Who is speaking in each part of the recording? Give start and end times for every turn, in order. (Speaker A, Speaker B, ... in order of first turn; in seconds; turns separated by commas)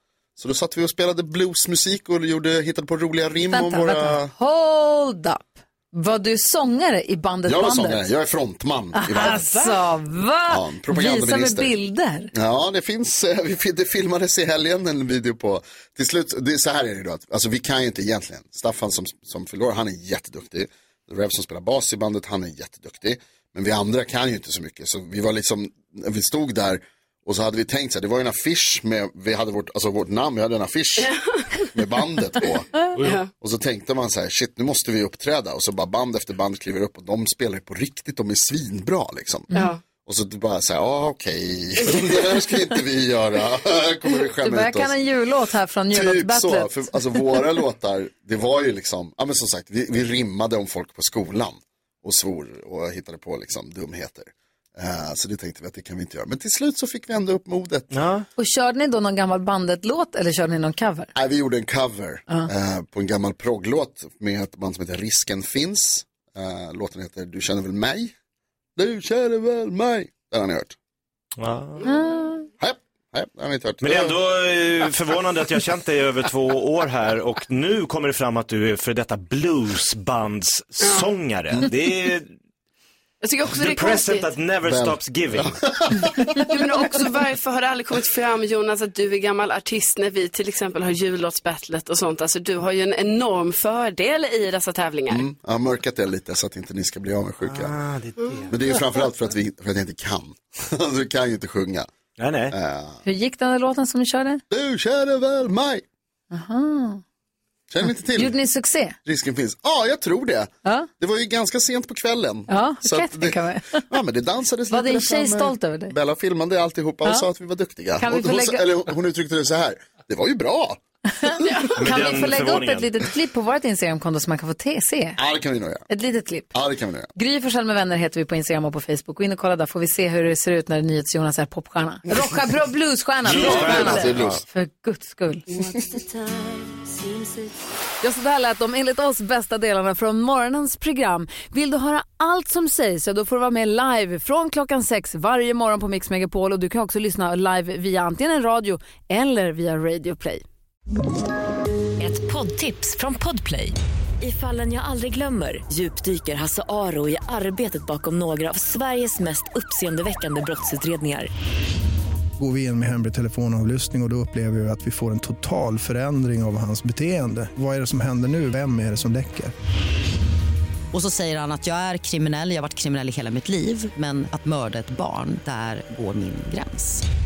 Speaker A: 0.4-4.3, Speaker B: 3.5-8.0, Speaker A: 7.5-9.5, Speaker B: 8.9-12.3, Speaker A: 10.5-11.7, Speaker A: 12.3-31.1, Speaker C: 31.0-31.4, Speaker A: 31.7-39.5, Speaker C: 33.0-33.3, Speaker C: 39.5-39.8, Speaker A: 40.0-45.0, Speaker B: 44.4-46.9, Speaker A: 45.9-57.9, Speaker D: 57.9-58.3, Speaker B: 58.4-61.1, Speaker A: 61.1-68.2, Speaker A: 68.8-70.8, Speaker D: 71.4-71.9, Speaker B: 71.9-72.5, Speaker A: 72.6-74.2, Speaker D: 73.8-82.3, Speaker C: 83.2-84.3, Speaker D: 83.5-85.6, Speaker A: 84.7-86.1, Speaker C: 86.5-95.2, Speaker A: 95.1-97.8, Speaker D: 97.5-98.5, Speaker C: 98.2-98.4, Speaker A: 98.5-101.9, Speaker D: 102.2-102.5, Speaker A: 102.5-103.0, Speaker B: 103.0-104.4, Speaker A: 104.5-105.8, Speaker B: 106.3-107.0, Speaker A: 107.7-108.3, Speaker B: 108.1-109.0, Speaker A: 109.0-120.8, Speaker B: 112.5-113.8, Speaker B: 114.7-115.9, Speaker B: 118.0-118.7, Speaker B: 121.1-125.2, Speaker C: 121.4-122.0, Speaker D: 121.8-123.1, Speaker A: 125.2-125.9, Speaker B: 125.9-126.5, Speaker A: 126.5-127.1, Speaker B: 127.2-135.5, Speaker D: 133.2-134.3, Speaker A: 133.3-134.4, Speaker B: 138.0-150.4, Speaker E: 152.0-161.3, Speaker F: 162.4-169.5, Speaker G: 170.9-177.0